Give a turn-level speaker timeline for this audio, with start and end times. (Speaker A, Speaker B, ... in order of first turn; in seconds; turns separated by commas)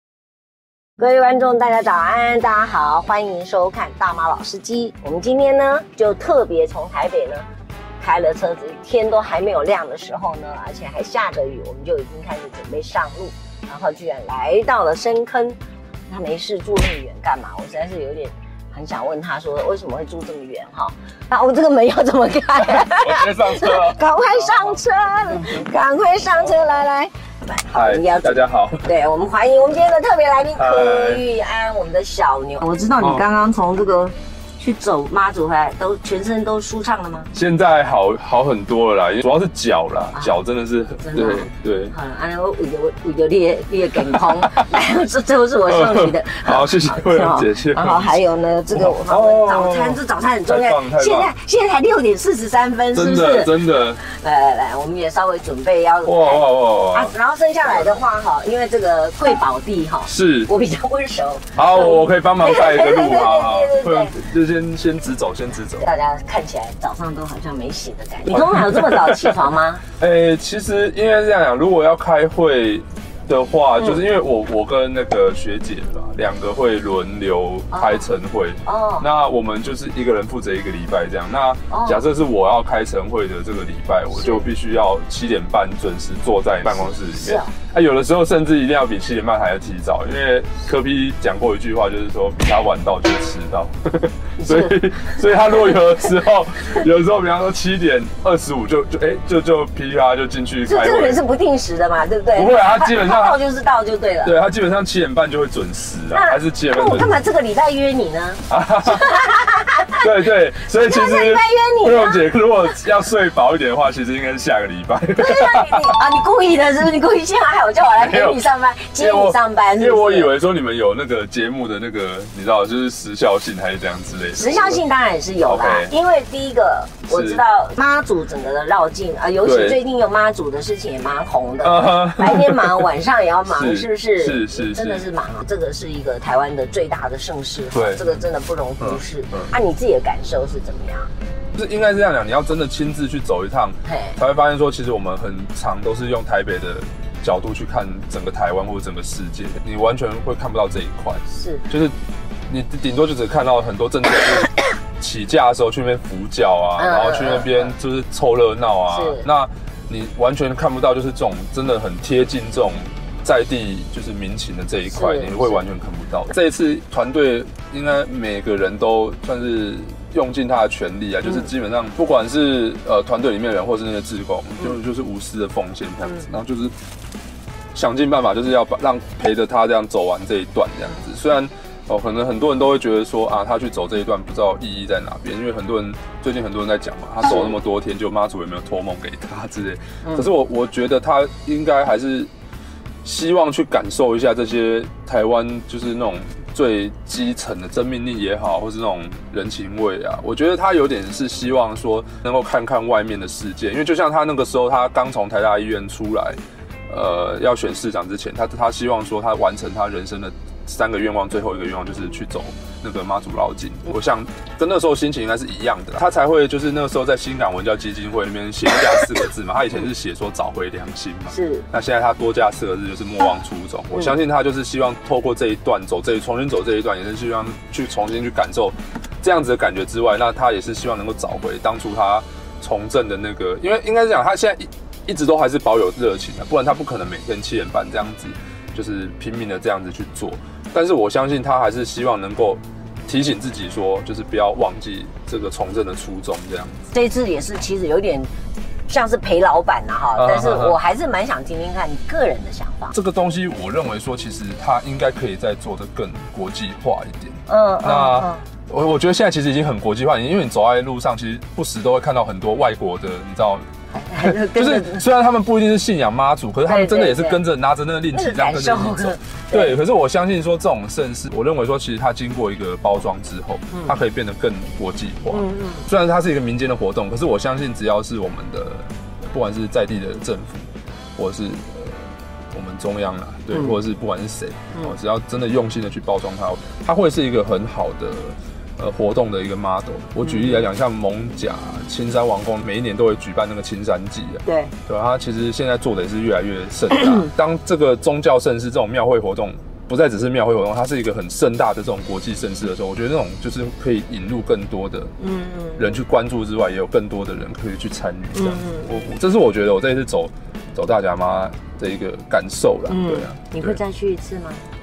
Speaker A: 1.0-7.5, Speaker A: 8.0-37.3, Speaker B: 22.6-24.8, Speaker B: 27.7-28.9, Speaker B: 30.6-31.2, Speaker B: 33.0-33.2, Speaker B: 37.3-42.0, Speaker A: 40.1-40.4, Speaker A: 41.0-64.1, Speaker B: 45.7-48.1, Speaker B: 48.7-51.3, Speaker B: 52.9-54.0, Speaker B: 56.0-57.1, Speaker B: 57.6-58.0, Speaker B: 60.1-60.5, Speaker B: 61.5-65.9, Speaker A: 65.8-69.8, Speaker B: 68.3-69.3, Speaker B: 70.0-101.2, Speaker A: 77.7-78.1, Speaker A: 78.7-79.1, Speaker A: 81.7-82.0, Speaker A: 84.2-84.5, Speaker A: 86.9-87.5, Speaker A: 94.4-95.4, Speaker A: 100.7-104.4, Speaker B: 102.3-103.4, Speaker B: 104.2-107.1, Speaker A: 106.1-110.0, Speaker B: 108.5-109.2, Speaker B: 110.0-115.9, Speaker A: 110.7-112.3, Speaker A: 115.2-120.3, Speaker B: 118.0-118.4, Speaker B: 119.0-124.8, Speaker A: 124.3-141.1, Speaker B: 125.4-125.9, Speaker B: 127.1-127.4, Speaker B: 129.4-129.8, Speaker B: 131.6-132.8, Speaker B: 133.5-135.0, Speaker B: 137.7-138.1, Speaker B: 138.8-139.5, Speaker B: 141.5-152.0, Speaker A: 143.9-144.2, Speaker A: 151.3-151.7, Speaker B: 152.5-176.8, Speaker A: 156.8-157.7, Speaker A: 158.9-159.3, Speaker A: 164.9-165.7, Speaker B: 177.7-192.3, Speaker B: 193.0-246.9, Speaker A: 221.3-221.7, Speaker A: 246.9-248.3, Speaker A: 248.9-252.9, Speaker B: 250.2-250.8, Speaker B: 252.9-263.7, Speaker A: 257.5-258.4, Speaker A: 263.9-265.0, Speaker B: 264.2-305.1, Speaker A: 266.7-267.4, Speaker A: 268.1-269.8, Speaker A: 275.3-275.9, Speaker A: 290.2-290.6, Speaker A: 294.4-294.7, Speaker A: 297.0-297.3, Speaker A: 305.2-306.0, Speaker B: 305.8-313.8, Speaker A: 308.3-308.9, Speaker A: 312.9-314.6